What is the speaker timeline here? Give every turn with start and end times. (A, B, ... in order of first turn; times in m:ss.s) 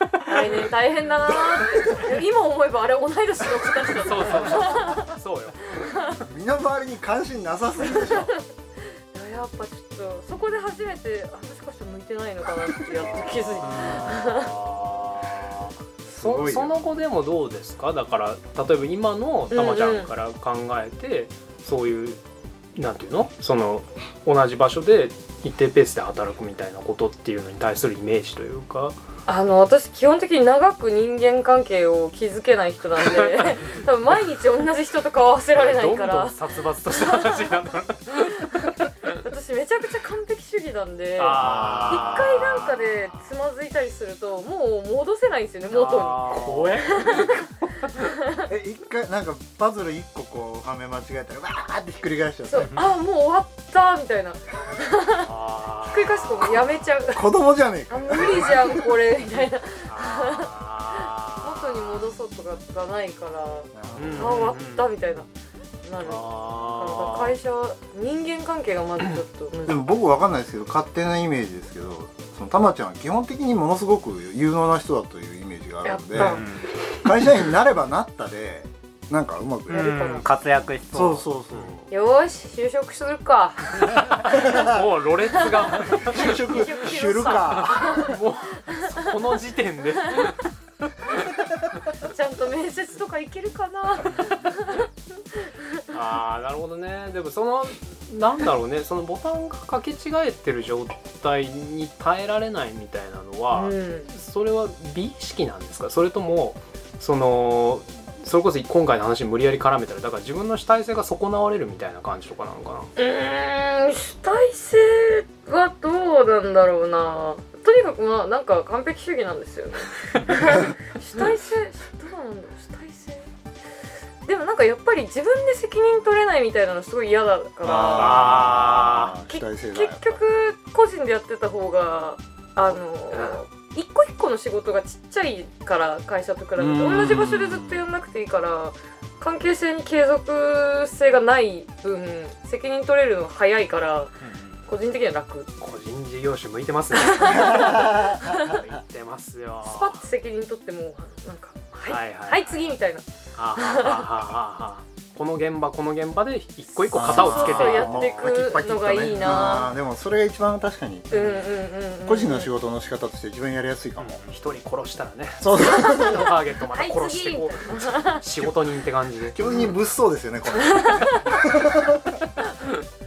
0:00.2-0:05.1 A
0:01.3-0:02.1 B
0:04.0-0:06.2 C
0:05.8-0:06.2 A
0:06.2-0:08.3 B
0:07.8-0:14.5 A
0:13.2-0:22.2 C
0:13.6-0:14.2 D
0:16.0-0:16.9 B
0:19.5-0:20.1 A
0:22.8-0:29.0 C
0:29.3-0:37.5 A
0:33.1-0:33.8 C
0:35.6-0:38.7 C
0:38.1-0:48.5 A
0:41.2-0:42.9 C
0:41.4-0:42.4 B
0:45.7-0:47.0 D
0:46.1-0:47.4 C
0:48.5-0:52.8 B
0:52.5-0:57.2 A
0:55.2-0:56.6 C
0:57.1-0:58.9 B
0:57.9-1:05.3 A
0:59.9-1:01.5 C
1:00.2-1:00.4 D
1:03.7-1:04.5 B
1:04.0-1:04.9 C
1:05.8-1:09.8 A
1:06.0-1:07.4 C
1:09.7-1:20.1 B
1:15.8-1:16.5 A
1:16.2-1:16.7 D
1:19.7-1:20.3 A
1:19.7-1:21.2 D
1:20.9-1:21.9 B
1:21.9-1:24.6 A
1:23.9-1:26.6 C
1:24.3-1:24.8 B
1:25.4-1:28.2 A
1:26.0-1:28.2 B
1:27.4-1:30.5 C
1:28.7-1:29.1 A
1:32.0-1:35.8 A
1:35.9-1:52.9 C
1:43.5-1:44.1 A
1:53.0-2:03.3 A
2:04.2-2:08.3 A
2:07.6-2:10.2 B
2:07.9-2:09.2 C
2:09.3-2:24.1 A
2:13.1-2:13.4 C
2:16.6-2:17.8 B
2:24.3-2:24.5 D
2:24.7-2:25.5 A
2:25.6-2:30.0 C
2:27.0-2:28.6 A
2:27.5-2:28.2 B
2:29.6-2:34.1 A
2:31.8-2:32.7 C
2:33.4-2:38.2 C
2:36.9-2:41.2 B
2:37.0-2:39.7 A
2:41.1-2:42.5 A
2:41.1-2:41.4 C
2:42.0-2:44.2 B
2:44.0-2:49.4 C
2:45.4-2:46.3 B
2:45.6-2:48.2 A
2:49.3-2:52.2 B
2:50.7-2:51.2 A